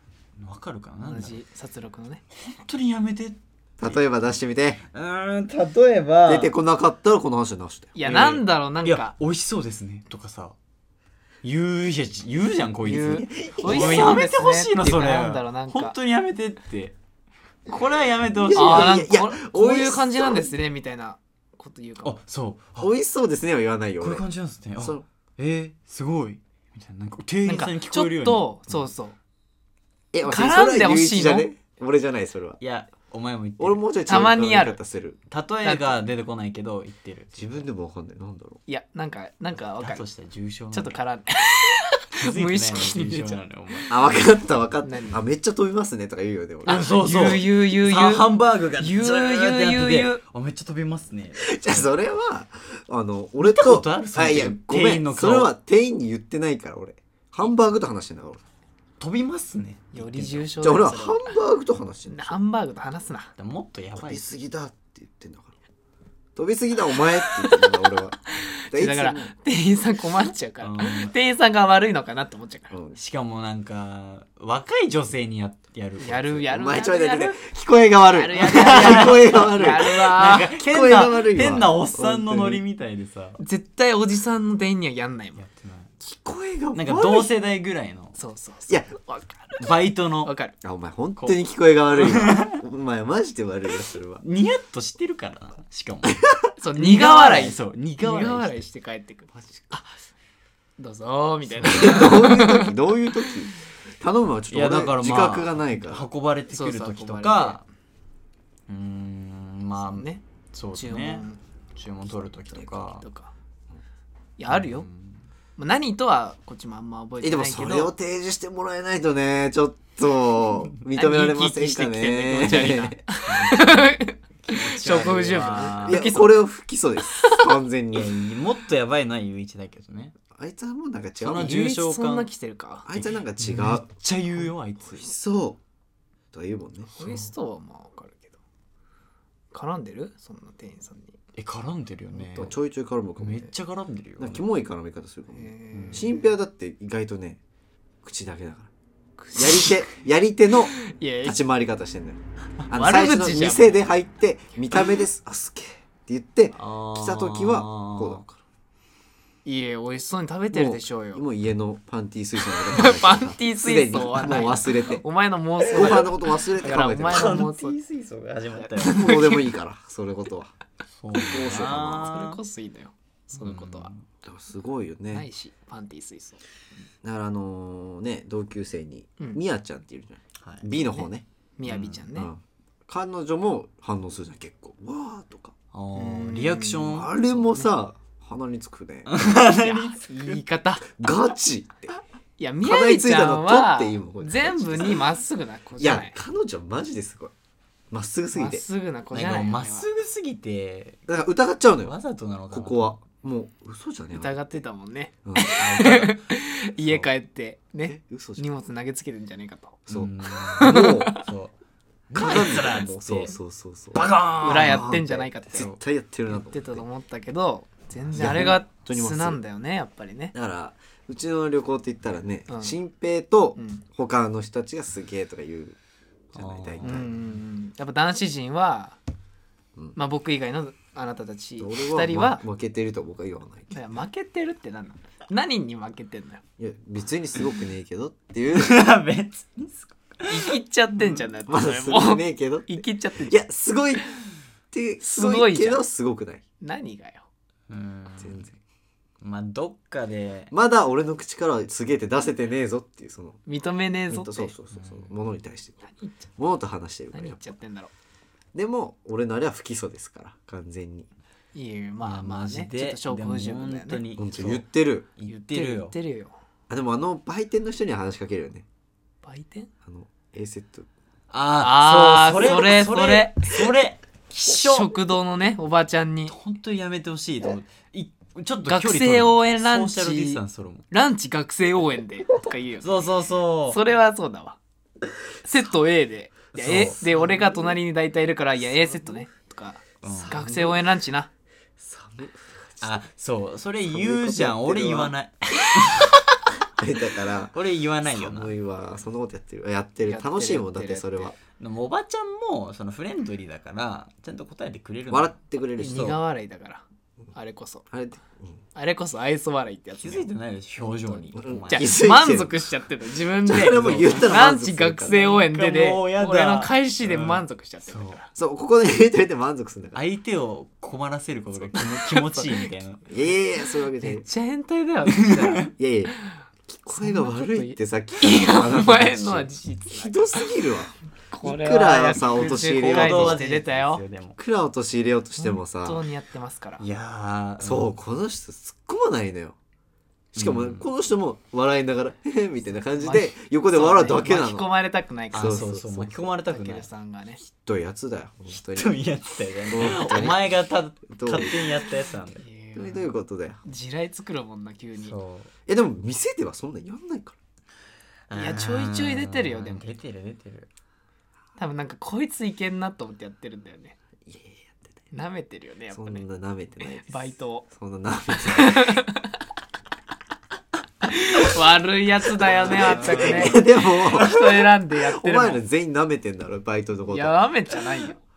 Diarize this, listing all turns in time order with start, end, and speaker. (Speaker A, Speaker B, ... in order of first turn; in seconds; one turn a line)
Speaker A: 0.4-1.4
Speaker B: 1.0-2.2
Speaker A: 2.3-4.0
Speaker C: 3.8-4.8
Speaker A: 4.9-6.5
Speaker C: 6.3-8.0
Speaker B: 7.9-9.1
Speaker A: 8.0-10.6
Speaker A: 11.4-16.9
Speaker B: 12.8-15.9
Speaker C: 13.1-14.2
Speaker A: 17.7-19.0
Speaker C: 18.3-20.5
Speaker B: 18.5-22.2
Speaker A: 22.0-22.9
Speaker C: 22.8-24.2
Speaker A: 24.0-28.9
Speaker C: 24.8-25.0
Speaker B: 27.4-29.1
Speaker C: 30.1-32.6
Speaker B: 30.2-31.5
Speaker A: 32.6-33.8
Speaker C: 33.6-35.2
Speaker B: 34.1-34.8
Speaker A: 35.3-37.7
Speaker B: 35.6-36.0
Speaker C: 37.3-38.6
Speaker B: 38.7-40.0
Speaker A: 39.8-41.0
Speaker B: 40.7-43.8
Speaker A: 42.1-44.0
Speaker C: 43.9-47.3
Speaker B: 44.8-45.2
Speaker B: 46.6-50.2
Speaker A: 46.6-51.9
Speaker C: 51.4-58.4
Speaker A: 53.4-55.5
Speaker A: 59.0-60.5
Speaker B: 59.9-61.4
Speaker C: 60.6-62.4
Speaker B: 62.1-63.3
Speaker A: 63.4-64.2
Speaker C: 64.0-65.5
Speaker C: 66.3-69.3
Speaker B: 67.3-67.7
Speaker B: 68.4-72.7
Speaker A: 70.6-71.1
Speaker C: 72.7-73.0
Speaker A: 73.0-76.5
Speaker B: 76.0-77.4
Speaker C: 76.5-82.6
Speaker B: 78.1-80.5
Speaker A: 78.3-83.4
Speaker B: 83.4-85.4
Speaker A: 85.3-85.9
Speaker C: 86.0-87.3
Speaker A: 86.7-88.2
Speaker B: 88.2-89.7
Speaker A: 89.6-90.3
Speaker B: 90.2-90.5
Speaker C: 90.6-94.2
Speaker A: 91.9-92.6
Speaker A: 94.2-98.6
Speaker B: 96.6-99.9
Speaker C: 99.3-99.7
Speaker B: 100.8-102.7
Speaker C: 101.6-106.1
Speaker A: 104.5-107.6
Speaker B: 106.5-107.6
Speaker A: 108.7-113.0
Speaker B: 109.8-110.2
Speaker B: 110.7-111.4
Speaker B: 112.9-113.3
Speaker B: 114.4-114.9
Speaker A: 114.5-115.2
Speaker B: 115.6-117.9
Speaker C: 117.2-123.0
Speaker B: 120.9-126.4
Speaker A: 123.3-123.9
Speaker A: 124.4-126.2
Speaker C: 125.3-128.2
Speaker B: 127.1-127.5
Speaker A: 127.9-130.2
Speaker C: 130.3-131.6
Speaker A: 131.2-132.3
Speaker B: 131.4-132.9
Speaker C: 132.9-133.8
Speaker A: 132.9-135.1
Speaker C: 134.9-135.6
Speaker C: 136.3-137.3
Speaker B: 136.9-138.4
Speaker B: 139.5-141.2
Speaker A: 141.3-142.5
Speaker B: 142.1-142.5
Speaker C: 142.4-143.5
Speaker A: 143.2-144.4
Speaker C: 144.2-147.4
Speaker B: 145.3-146.1
Speaker A: 145.7-146.1
Speaker C: 148.0-148.7
Speaker B: 149.2-149.8
Speaker C: 149.3-158.3
Speaker B: 150.6-151.4
Speaker B: 152.7-153.8
Speaker A: 156.5-158.2
Speaker B: 159.4-161.2
Speaker C: 160.5-165.0
Speaker B: 162.5-167.8
Speaker A: 165.6-169.2
Speaker C: 165.7-167.4
Speaker B: 168.6-169.5
Speaker C: 168.8-170.5
Speaker A: 171.0-172.4
Speaker C: 171.3-172.1
Speaker B: 171.3-173.9
Speaker A: 173.3-174.0
Speaker C: 174.2-175.3
Speaker B: 175.1-176.4
Speaker C: 177.0-181.2
Speaker A: 180.4-180.7
Speaker B: 180.9-182.3
Speaker A: 181.6-182.1
Speaker C: 182.1-185.5
Speaker A: 185.7-187.1
Speaker B: 185.9-187.7
Speaker C: 186.9-189.2
Speaker A: 189.1-190.4
Speaker B: 189.4-191.0
Speaker C: 191.0-191.9
Speaker B: 192.4-196.1
Speaker C: 192.6-195.1
Speaker C: 195.8-197.3
Speaker C: 197.9-198.6
Speaker B: 198.3-199.9
Speaker A: 199.1-201.1
Speaker C: 201.1-201.9
Speaker A: 201.8-203.0
Speaker C: 202.5-204.5
Speaker B: 204.1-209.9
Speaker C: 205.2-205.6
Speaker A: 205.4-206.2
Speaker C: 206.8-207.1
Speaker C: 207.8-208.4
Speaker C: 209.9-211.2
Speaker A: 209.9-211.5
Speaker B: 210.4-211.2
Speaker A: 212.1-213.3
Speaker C: 212.1-216.8
Speaker A: 213.9-215.8
Speaker B: 214.4-215.7
Speaker B: 216.3-220.3
Speaker A: 217.9-218.5
Speaker C: 218.1-219.4
Speaker C: 220.3-225.8
Speaker B: 222.5-222.8
Speaker B: 223.6-223.8
Speaker C: 226.3-227.1
Speaker A: 226.3-227.3
Speaker B: 226.8-229.0
Speaker B: 229.9-232.4
Speaker C: 231.6-233.9
Speaker B: 233.7-236.4
Speaker C: 236.6-238.9
Speaker A: 238.5-241.2
Speaker B: 240.3-243.4
Speaker C: 241.5-244.1
Speaker C: 244.7-246.4
Speaker B: 245.0-245.8
Speaker B: 246.6-247.2
Speaker A: 247.7-248.5
Speaker C: 248.2-248.6
Speaker A: 249.2-250.5
Speaker C: 250.5-253.4
Speaker B: 253.4-254.5
Speaker C: 254.1-255.8
Speaker A: 254.7-255.1
Speaker B: 255.8-256.2
Speaker C: 256.4-257.5
Speaker B: 257.1-257.9
Speaker C: 258.5-261.1
Speaker B: 261.5-264.0
Speaker A: 262.0-264.6
Speaker C: 264.1-265.1
Speaker A: 265.1-265.9
Speaker B: 265.3-266.3
Speaker C: 266.7-268.6
Speaker B: 269.2-269.7
Speaker C: 269.8-270.9
Speaker A: 271.3-275.0
Speaker B: 271.6-273.6
Speaker B: 274.5-276.3
Speaker A: 276.3-280.8
Speaker B: 278.7-283.1
Speaker A: 282.8-283.8
Speaker B: 283.7-284.6
Speaker B: 285.4-291.3
Speaker A: 286.5-287.0
Speaker C: 286.7-287.7
Speaker A: 290.0-290.5
Speaker C: 290.1-290.8
Speaker C: 291.8-293.0
Speaker A: 292.8-296.2
Speaker C: 293.9-295.1
Speaker C: 296.8-301.4
Speaker A: 297.5-298.5
Speaker B: 300.0-301.3
Speaker A: 301.6-305.4
Speaker C: 305.1-306.2
Speaker B: 305.8-307.9
Speaker C: 307.9-308.6
Speaker B: 308.7-310.3
Speaker A: 309.9-312.0
Speaker B: 310.8-318.3
Speaker C: 311.4-312.5
Speaker C: 313.4-315.2
Speaker A: 313.6-314.3
Speaker A: 315.1-318.2
Speaker C: 318.4-320.0
Speaker A: 319.9-323.1
Speaker B: 322.2-322.6
Speaker C: 323.1-324.3
Speaker B: 324.0-325.7
Speaker A: 325.1-325.6
Speaker C: 325.7-326.1
Speaker C: 326.7-333.4
Speaker B: 326.9-330.5
Speaker B: 331.3-334.0
Speaker A: 332.3-334.4
Speaker C: 334.4-336.0
Speaker B: 335.4-336.8
Speaker A: 336.8-337.9
Speaker C: 337.6-339.6
Speaker C: 340.3-344.7
Speaker A: 340.3-340.9
Speaker B: 343.0-345.6
Speaker A: 345.3-346.9
Speaker C: 345.3-346.2
Speaker B: 346.4-347.4
Speaker C: 347.4-348.9
Speaker A: 348.5-352.4
Speaker C: 349.7-350.5
Speaker C: 351.1-351.6
Speaker B: 352.4-353.1
Speaker C: 352.7-353.6
Speaker B: 353.6-355.1
Speaker A: 355.0-355.5
Speaker C: 355.7-357.4
Speaker A: 358.3-360.7
Speaker B: 358.3-359.9
Speaker B: 361.6-363.9
Speaker C: 364.2-365.0
Speaker B: 365.1-366.2
Speaker C: 365.9-369.0
Speaker B: 367.0-367.6
Speaker B: 368.4-369.4
Speaker B: 371.0-375.6
Speaker A: 372.4-374.5
Speaker C: 372.4-377.4
Speaker B: 377.1-378.2